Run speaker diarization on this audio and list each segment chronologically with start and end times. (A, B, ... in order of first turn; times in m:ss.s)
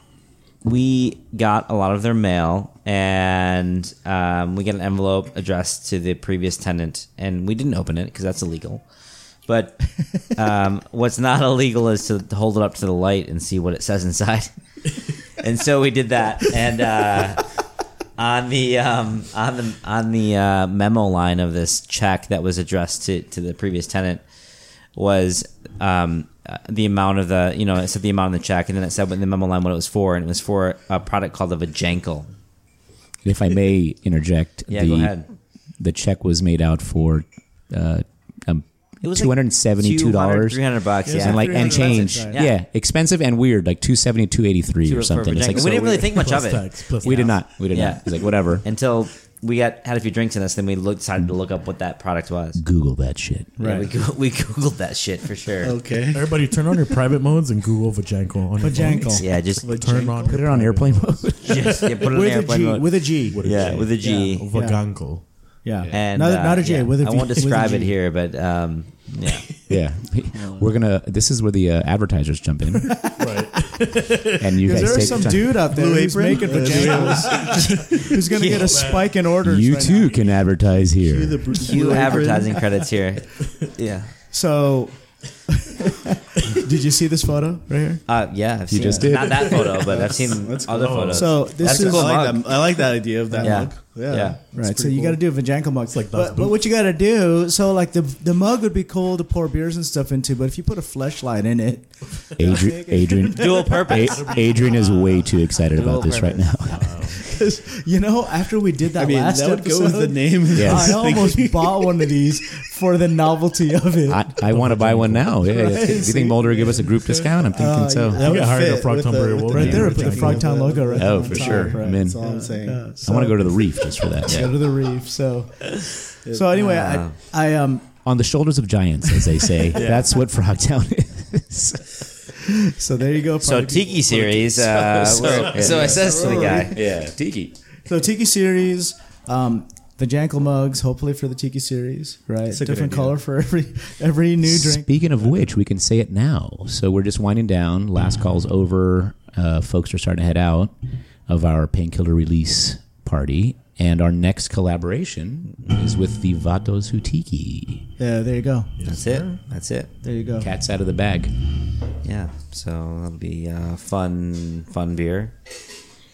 0:00.6-0:08.9 A
0:09.4-0:17.6 A
0:18.2-0:24.3 A
0:24.9-0:32.3 A
0:33.2-0:46.2 B
0:34.7-0:35.3 A
0:39.0-0:42.6 A
0:41.0-0:41.6 C
0:41.1-0:42.4 D
0:44.8-0:52.6 A
0:45.5-0:47.5 C
0:47.0-0:48.6 B
0:52.5-0:53.5 B
0:53.6-0:53.9 D
0:53.6-0:55.8 A
0:55.6-0:56.4 E
0:56.1-1:01.9 C
0:58.6-0:59.4 D
0:59.2-0:59.8 A
0:59.4-1:00.5 E
1:00.2-1:01.8 B
1:01.4-1:04.4 A
1:02.1-1:07.9 D
1:03.3-1:05.5 C
1:05.9-1:09.5 A
1:09.7-1:13.0 B
1:12.9-1:13.7 D
1:13.2-1:15.4 C
1:14.4-1:15.6 B
1:14.6-1:20.3 D
1:15.0-1:18.0 E
1:16.4-1:20.4 C
1:18.3-1:18.9 A
1:19.4-1:21.5 B
1:21.0-1:22.7 E
1:21.5-1:24.1 A
1:24.3-1:28.0 D
1:28.0-1:32.8 A
1:28.7-1:29.6 B
1:29.8-1:35.2 E
1:30.7-1:31.4 C
1:31.1-1:32.2 D
1:33.3-1:33.7 D
1:33.4-1:34.4 A
1:34.5-1:44.7 D
1:35.9-1:36.6 C
1:42.4-1:47.2 B
1:43.3-1:44.3 A
1:43.9-1:45.6 C
1:45.7-1:46.6 A
1:46.7-1:47.2 C
1:47.1-1:54.4 D
1:48.9-1:52.1 E
1:50.5-1:51.0 B
1:54.1-1:58.2 B
1:54.4-1:55.4 C
1:55.4-1:58.4 D
1:58.1-2:03.0 E
1:58.1-2:00.5 C
1:59.5-2:07.9 D
2:01.0-2:02.2 B
2:03.0-2:04.5 B
2:06.5-2:07.2 A
2:08.0-2:12.1 B
2:09.7-2:10.1 A
2:12.7-2:14.0 D
2:13.4-2:16.8 A
2:14.1-2:16.2 C
2:14.5-2:15.8 B
2:15.6-2:17.1 D
2:16.1-2:16.5 E
2:16.7-2:17.6 B
2:17.8-2:25.4 D
2:22.5-2:23.2 E
2:24.4-2:37.9 B
2:38.0-2:38.8 D
2:38.8-2:39.4 C
2:38.8-2:39.9 A
2:40.0-2:40.5 D
2:40.4-2:41.3 B
2:42.0-2:45.3 A